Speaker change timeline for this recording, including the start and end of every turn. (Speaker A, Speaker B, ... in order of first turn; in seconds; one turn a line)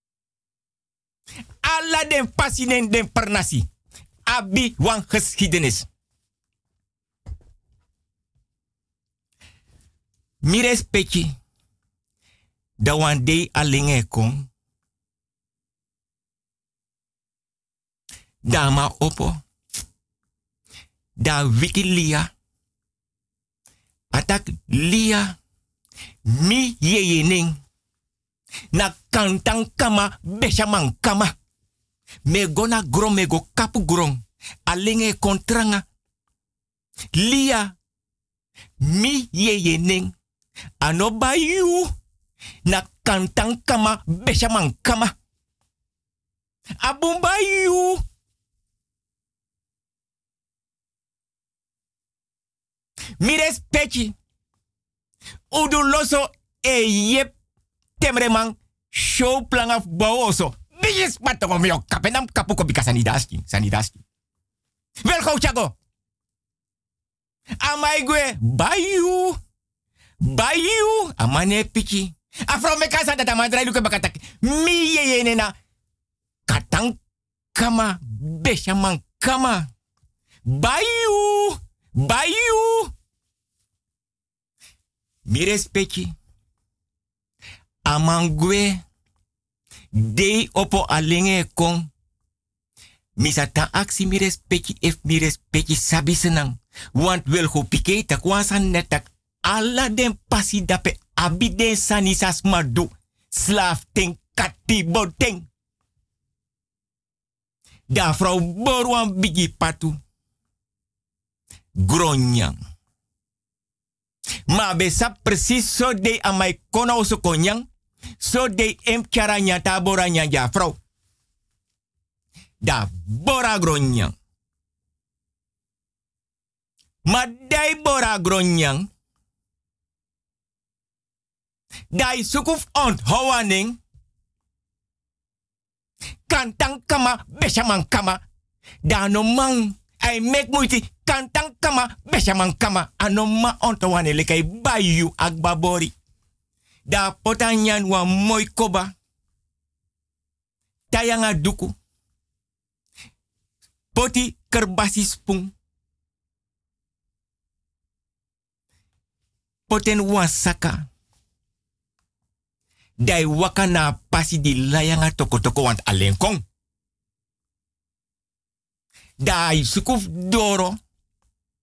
Speaker A: 1.6-3.7
Speaker A: 4.3-5.9
Speaker A: 10.4-11.3
Speaker A: 12.8-14.5
Speaker A: 18.5-19.4
Speaker A: 21.2-22.3
Speaker A: 24.1-25.4
Speaker A: 26.3-27.6
Speaker A: 28.7-31.4
Speaker A: 32.3-35.8
Speaker A: 37.2-37.8
Speaker A: 38.8-40.1
Speaker A: 40.8-41.9
Speaker A: 42.7-45.1
Speaker A: 46.8-48.0
Speaker A: 53.2-54.1
Speaker A: 55.5-57.3
Speaker A: 58.0-64.0
Speaker A: 65.0-65.7
Speaker A: 67.6-69.4
Speaker A: 70.2-75.5
Speaker A: 76.5-77.0
Speaker A: 77.5-79.7
Speaker A: 80.5-82.9
Speaker A: 85.3-86.1
Speaker A: 87.9-88.8
Speaker A: 90.0-91.9
Speaker A: 93.2-105.5
Speaker A: 107.9-110.0
Speaker A: 111.8-112.6
Speaker A: 114.5-117.7
Speaker A: 118.2-120.8
Speaker A: 122.6-124.1
Speaker A: 127.1-128.9
Speaker A: 131.9-133.8
Speaker A: 136.3-138.2
Speaker A: 138.8-145.9
Speaker A: 146.9-148.9
Speaker A: 150.9-151.7
Speaker A: 153.9-155.5
Speaker A: 159.7-160.9
Speaker A: 163.0-166.4
Speaker A: 169.2-170.8